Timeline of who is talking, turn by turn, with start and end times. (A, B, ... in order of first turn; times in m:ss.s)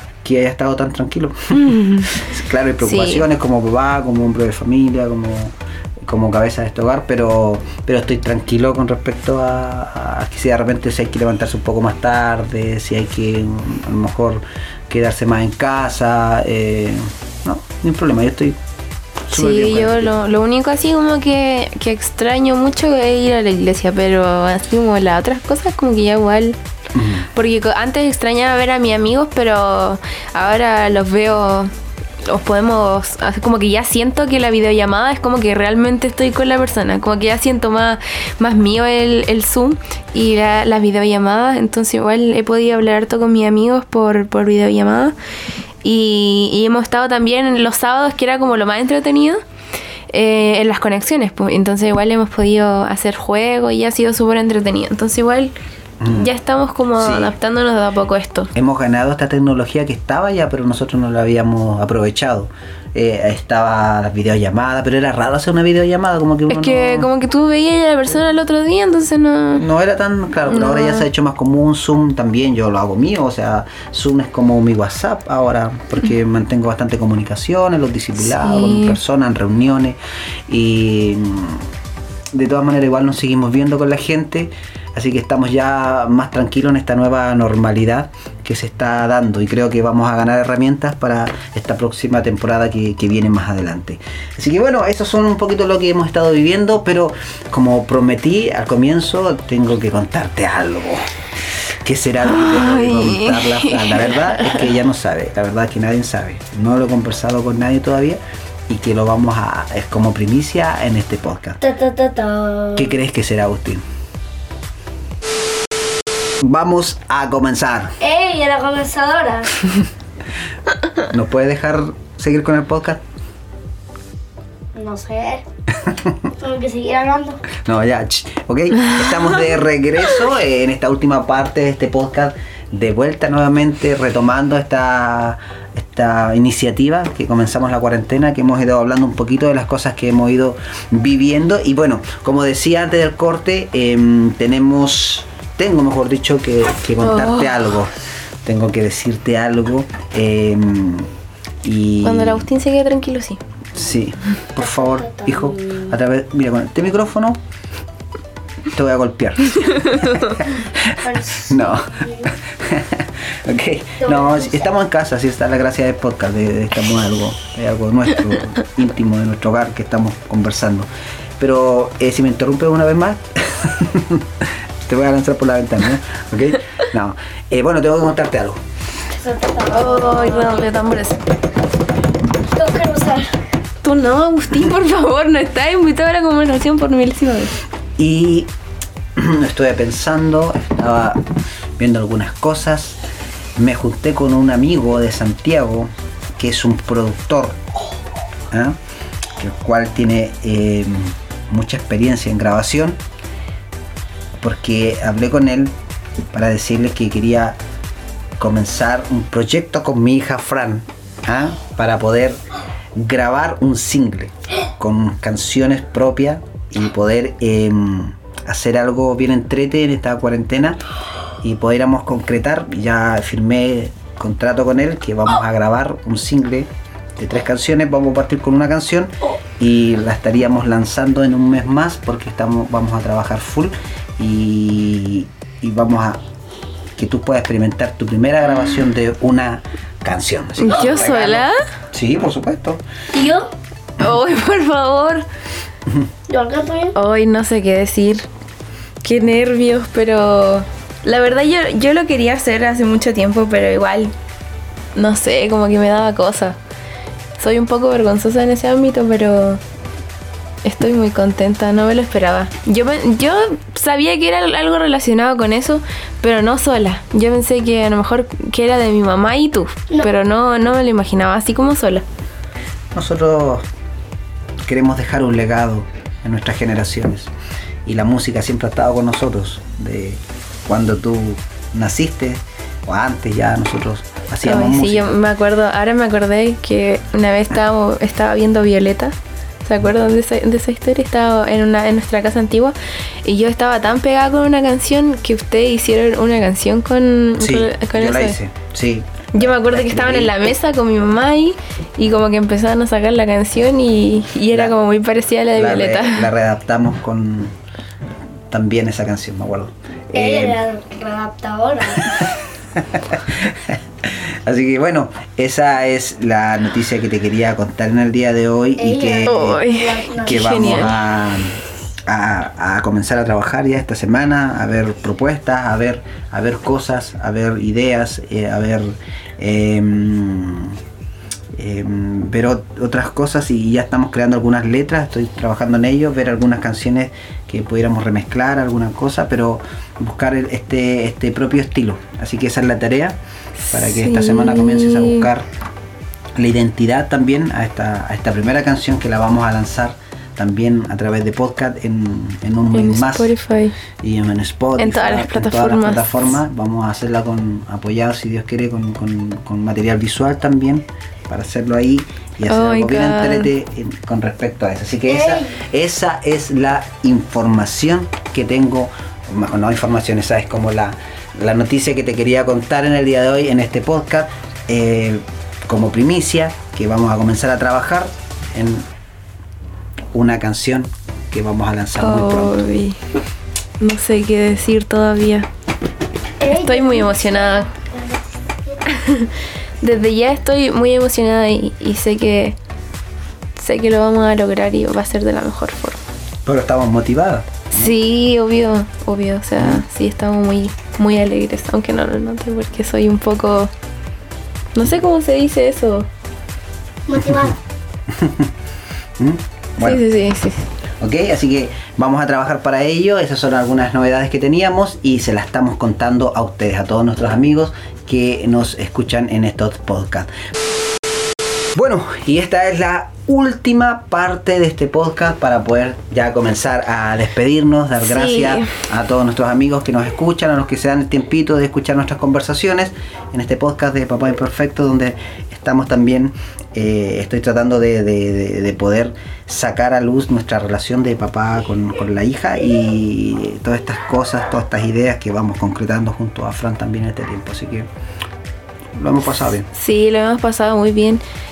0:00.2-0:18.6 A
0:01.5-0:02.1 B
0:02.8-0:03.2 B
0:19.2-0:20.2 A
0:19.3-0:26.6 B
0:26.9-0:27.3 A
0:27.3-0:31.7 B
0:32.2-0:45.1 B
0:45.8-0:49.4 B
0:50.1-0:55.5 B
0:56.0-0:56.3 A
0:56.1-0:58.5 B
0:57.0-0:57.3 A
0:58.5-1:07.1 A
1:06.5-1:09.6 B
1:09.6-1:21.7 A
1:10.5-1:11.0 B
1:18.2-1:19.0 B
1:22.3-1:41.0 A
1:41.8-1:51.6 A
1:42.2-1:44.5 B
1:51.6-1:53.0 C
1:52.8-1:53.8 A
1:56.4-1:58.0 A
1:58.0-1:59.5 C
2:01.1-2:03.0 A
2:04.7-2:05.4 C
2:05.9-2:06.1 A
2:06.4-2:07.4 C
2:07.6-2:27.9 A
2:27.0-2:27.5 B
2:28.4-2:31.1 A
2:31.6-2:32.5 A
2:32.0-2:33.4 B
2:33.7-2:37.4 A
2:34.6-2:35.9 C
2:38.7-2:58.6 A
2:39.8-2:40.3 B
2:41.0-2:42.3 C
2:44.0-2:44.7 C
2:59.1-3:00.7 C
2:59.7-3:01.2 B
3:02.4-3:03.4 C
3:03.8-3:07.6 B
3:08.0-3:08.5 A
3:09.2-3:13.0 A
3:13.6-3:17.6 A
3:18.5-3:18.8 A
3:19.4-3:23.0 A
3:24.4-3:25.7 A
3:26.3-3:27.6 A
3:28.4-3:32.4 A
3:32.9-3:40.8 A
3:41.4-3:56.2 A
3:57.0-4:02.8 A
4:00.6-4:01.6 B
4:03.1-4:03.5 C
4:04.0-4:05.2 B
4:06.3-4:06.9 C
4:06.9-4:08.3 B
4:09.0-4:14.1 B
4:14.9-4:16.6 B
4:17.4-4:19.6 B
4:20.6-4:32.0 B
4:32.9-4:33.6 A
4:34.6-4:37.3 A
4:37.8-4:45.1 A
4:44.4-4:58.4 B
4:57.4-5:00.5 A
4:59.3-5:06.3 B
5:05.5-5:07.5 A
5:08.5-5:10.6 A
5:10.1-5:12.2 C
5:12.0-5:19.6 A
5:18.8-5:20.9 C
5:19.2-5:21.0 B
5:20.1-5:30.8 A
5:31.5-5:43.2 A
5:43.6-5:45.3 B
5:43.7-5:45.5 A
5:46.4-5:53.3 A
5:52.7-5:53.7 B
5:54.0-6:18.9 A
5:54.8-5:56.3 B
6:02.5-6:03.5 B
6:05.1-6:05.4 C
6:20.1-6:22.7 A
6:22.0-6:23.0 B
6:23.8-6:25.5 B
6:26.4-6:28.8 C
6:26.5-6:27.7 B
6:28.9-6:32.6 B
6:33.6-6:36.0 B
6:36.4-6:37.9 A
6:37.7-6:43.7 B
6:39.6-6:39.8 A
6:44.7-6:46.1 B
6:47.1-6:47.6 C
6:48.1-6:48.5 A
6:49.2-6:50.0 A
6:49.8-6:50.7 B
6:51.0-7:00.3 A
7:01.7-7:27.9 A
7:08.0-7:08.7 B
7:29.0-7:29.7 A
7:29.7-7:31.2 B